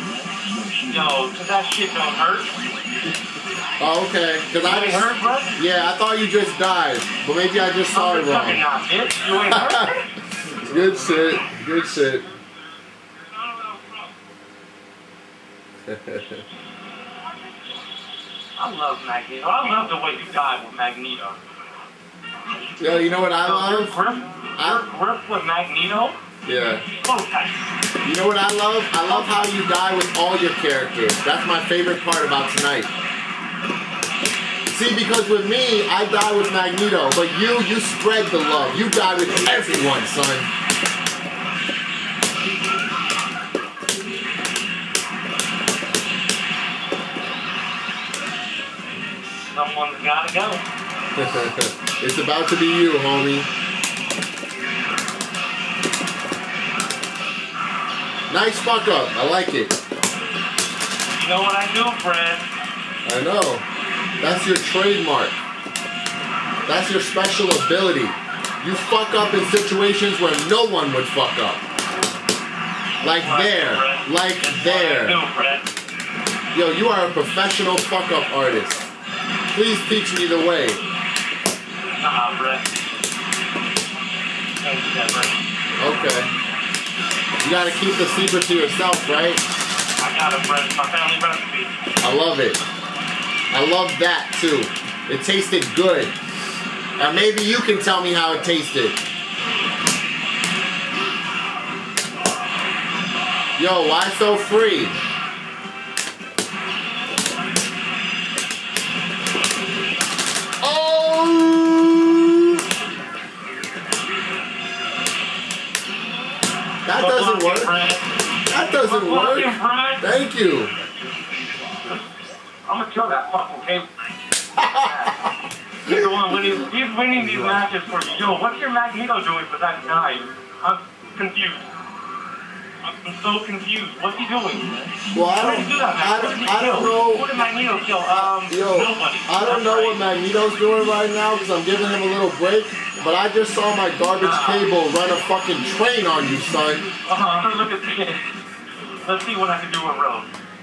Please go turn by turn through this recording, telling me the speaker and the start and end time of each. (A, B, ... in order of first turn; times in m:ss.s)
0:00.8-0:02.5 A
0:03.8-0:08.6 B
0:04.6-0:05.6 A
0:07.9-0:10.0 A
0:09.5-0:09.9 B
0:10.5-0:12.3 B
0:13.1-0:14.1 A
0:15.9-0:16.4 B
0:18.6-0:21.4 A
0:22.8-0:23.9 B
0:23.4-0:26.2 A
0:24.6-0:24.8 B
0:26.4-0:26.8 B
0:26.8-0:27.6 A
0:28.0-0:32.9 B
0:29.0-0:29.3 A
0:34.7-0:40.5 B
0:49.5-0:50.6 A
0:51.2-0:53.5 B
0:58.3-0:59.7 B
1:01.2-1:02.5 A
1:03.0-1:03.6 B
1:04.2-1:05.4 B
1:06.6-1:11.6 B
1:13.0-1:15.2 B
1:13.1-1:15.6 A
1:16.5-1:18.9 B
1:19.5-1:20.8 B
1:22.0-1:22.7 A
1:24.6-1:25.3 A
1:25.8-1:26.3 B
1:27.4-1:29.4 B
1:30.0-1:31.7 A
1:32.0-1:32.6 B
1:33.5-1:36.1 B
1:37.0-1:39.0 B
1:43.6-1:45.0 B
1:50.6-1:52.4 B
1:56.8-1:57.7 B
1:56.9-1:58.0 A
1:58.5-2:00.7 B
1:58.8-2:00.1 A
2:02.7-2:03.8 A
2:04.6-2:05.3 B
2:04.6-2:05.3 A
2:05.8-2:11.7 A
2:12.8-2:20.0 A
2:15.1-2:17.3 B
2:18.1-2:26.8 B
2:24.2-2:24.7 A
2:27.1-2:28.3 A
2:29.0-2:30.3 A